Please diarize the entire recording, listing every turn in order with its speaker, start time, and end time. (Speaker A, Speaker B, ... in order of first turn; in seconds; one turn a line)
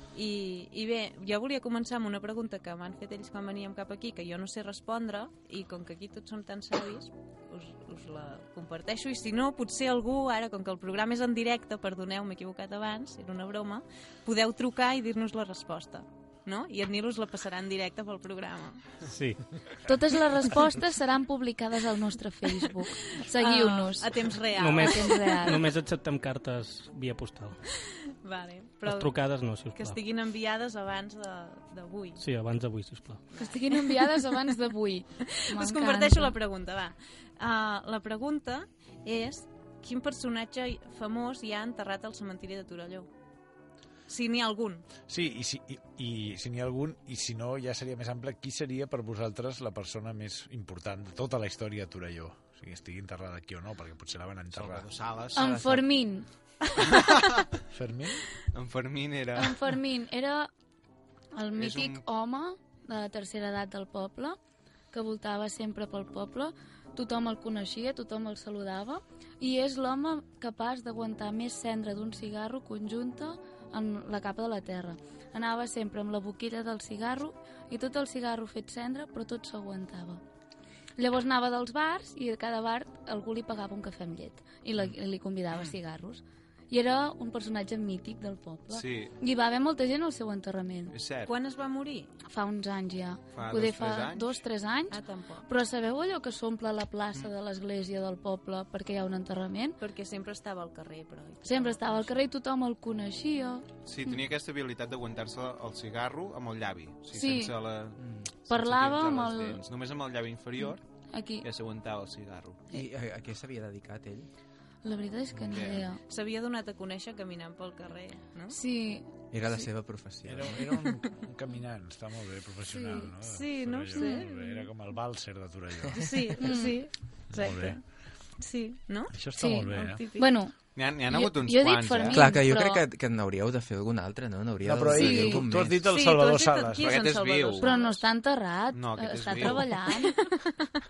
Speaker A: 0.1-18.9
Speaker B: 19.0-19.4
Speaker C: 19.8-25.6
Speaker A: 23.1-25.5
Speaker B: 24.6-27.6
Speaker A: 27.9-29.1
Speaker B: 28.8-30.0
Speaker A: 29.7-32.2
Speaker B: 32.2-33.2
Speaker A: 33.3-34.2
Speaker C: 33.3-36.3
Speaker A: 35.3-43.1
Speaker A: 44.1-44.9
Speaker D: 45.1-54.9
Speaker E: 54.5-55.7
Speaker C: 55.3-56.3
Speaker F: 55.4-55.8
Speaker E: 56.8-57.5
Speaker D: 57.7-58.3
Speaker E: 58.5-59.6
Speaker C: 59.4-60.5
Speaker C: 61.3-64.4
Speaker E: 61.6-62.0
Speaker C: 64.9-80.2
Speaker C: 81.0-90.9
Speaker E: 88.7-89.1
Speaker E: 90.9-91.3
Speaker A: 91.2-92.1
Speaker C: 92.2-99.8
Speaker E: 93.3-94.4
Speaker A: 94.9-95.5
Speaker A: 99.8-102.2
Speaker C: 101.4-103.7
Speaker E: 103.8-110.8
Speaker C: 107.1-107.5
Speaker F: 108.0-108.3
Speaker C: 108.5-109.6
Speaker C: 110.6-111.5
Speaker E: 111.4-112.6
Speaker F: 112.7-114.3
Speaker C: 114.8-116.0
Speaker E: 115.4-115.9
Speaker A: 116.1-118.6
Speaker C: 118.5-119.1
Speaker F: 119.3-120.6
Speaker D: 120.2-126.6
Speaker C: 122.7-123.1
Speaker A: 123.2-124.6
Speaker C: 123.9-124.5
Speaker A: 125.9-127.8
Speaker C: 126.4-126.8
Speaker D: 127.3-127.8
Speaker A: 128.4-130.3
Speaker D: 129.1-130.0
Speaker C: 129.4-132.8
Speaker E: 130.8-132.2
Speaker F: 132.1-135.8
Speaker D: 134.6-137.0
Speaker C: 134.9-135.4
Speaker A: 135.8-138.1
Speaker E: 136.8-137.8
Speaker C: 137.6-140.3
Speaker E: 138.7-139.8
Speaker A: 139.2-140.6